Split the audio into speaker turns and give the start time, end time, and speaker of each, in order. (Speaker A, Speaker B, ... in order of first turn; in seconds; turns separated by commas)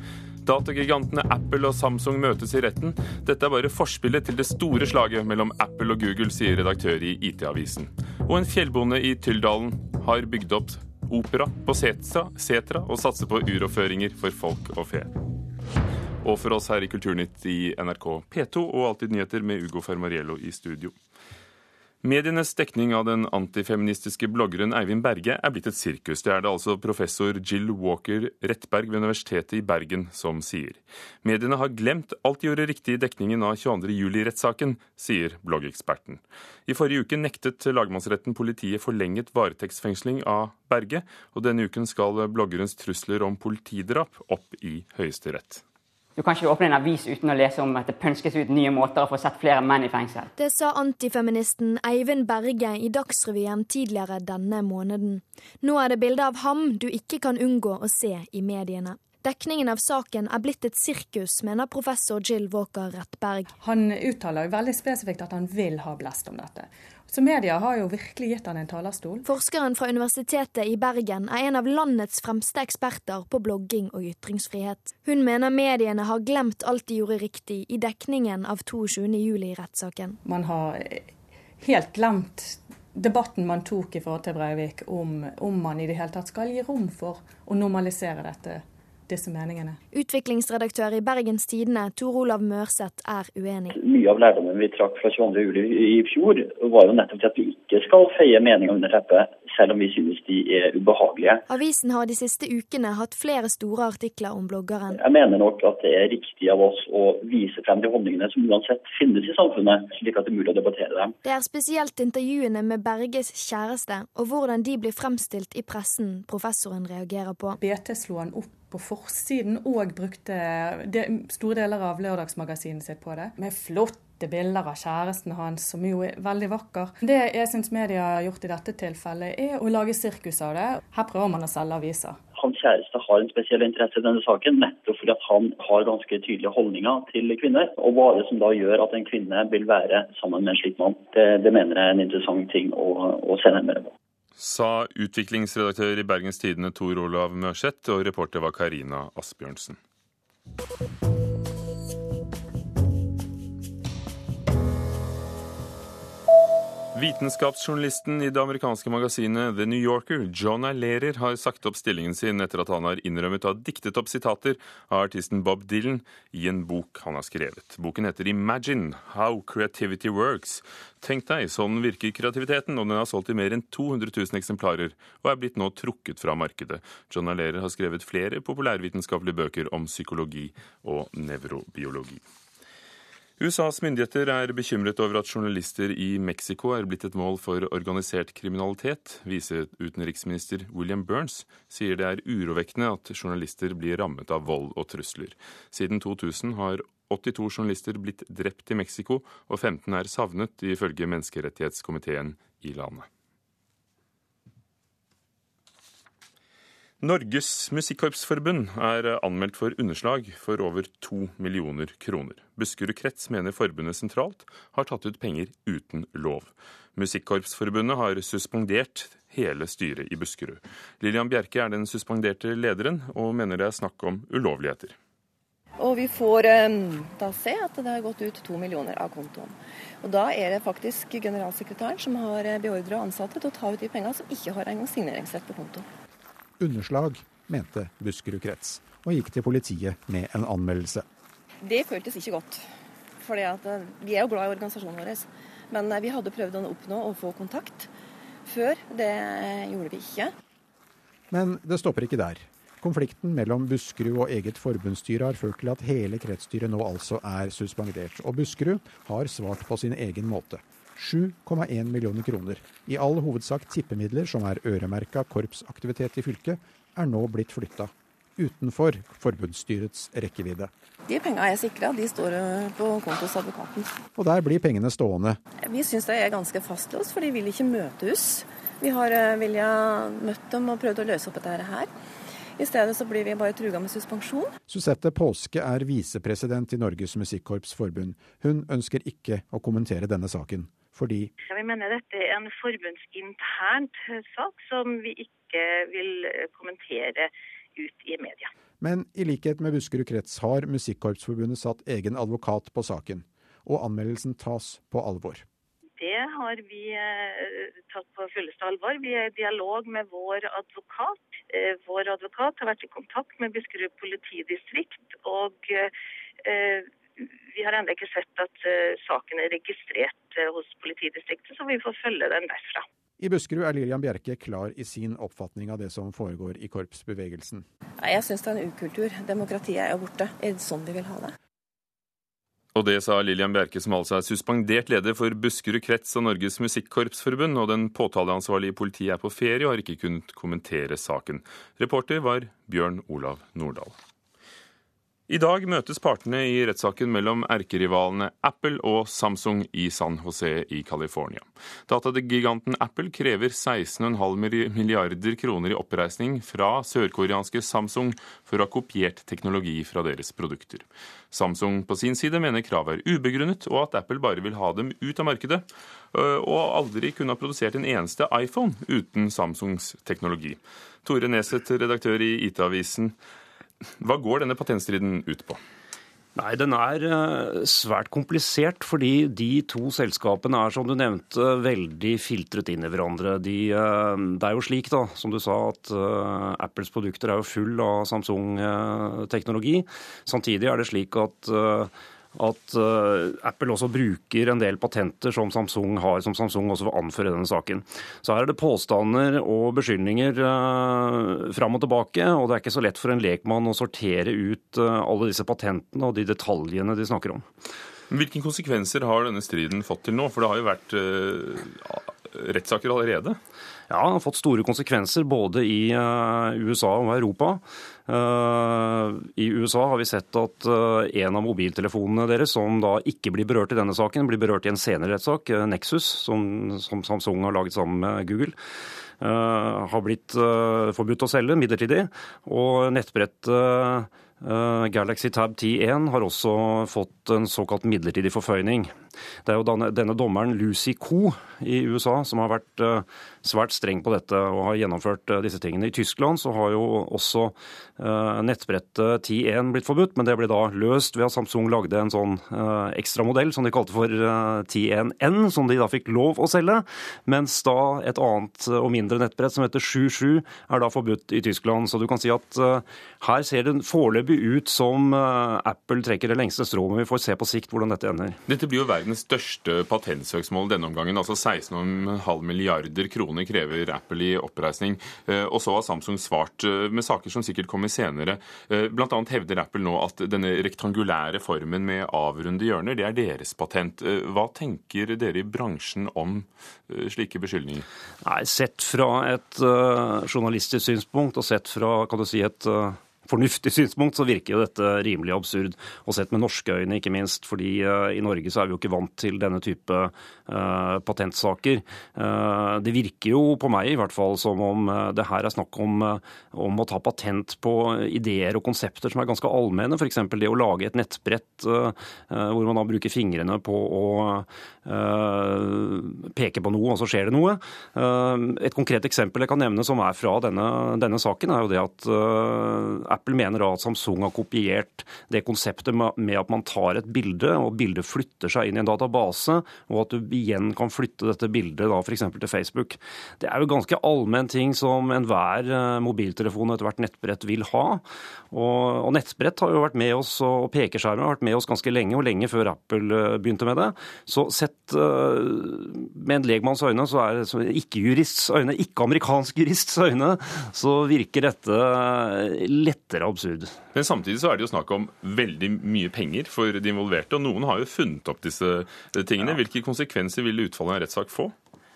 Speaker A: 0.4-15.1, Speaker A: 16.2-20.9, Speaker A: 22.0-45.6, Speaker B: 46.2-50.3, Speaker C: 50.4-63.5, Speaker D: 63.6-69.3, Speaker C: 69.2-80.2, Speaker D: 80.2-89.8, Speaker C: 89.9-93.7, Speaker E: 93.7-101.4, Speaker C: 101.5-105.0, Speaker E: 104.9-111.2, Speaker C: 111.2-117.6, Speaker D: 117.6-132.2, Speaker E: 132.4-143.9, Speaker A: 144.4-149.8, Speaker A: 156.9-182.2, Speaker A: 183.4-203.1, Speaker A: 207.0-225.0, Speaker F: 225.8-235.8, Speaker G: 236.6-241.1, Speaker F: 241.6-242.6, Speaker F: 243.2-247.9, Speaker F: 248.5-250.3, Speaker G: 251.3-270.7, Speaker F: 271.1-273.9, Speaker G: 274.1-275.4, Speaker F: 275.6-281.9, Speaker F: 282.6-284.5, Speaker G: 284.7-291.3, Speaker H: 291.5-298.5, Speaker G: 298.8-305.4, Speaker H: 306.0-315.9, Speaker H: 316.4-322.8, Speaker G: 323.2-327.7, Speaker F: 328.0-331.3, Speaker A: 332.8-343.9, Speaker A: 345.3-373.1, Speaker A: 374.0-375.6, Speaker I: 376.4-407.4, Speaker A: 408.1-413.4, Speaker I: 413.9-428.6, Speaker I: 429.2-438.9, Speaker I: 439.4-468.4, Speaker A: 468.5-487.9, Speaker I: 488.2-553.8, Speaker A: 553.9-561.5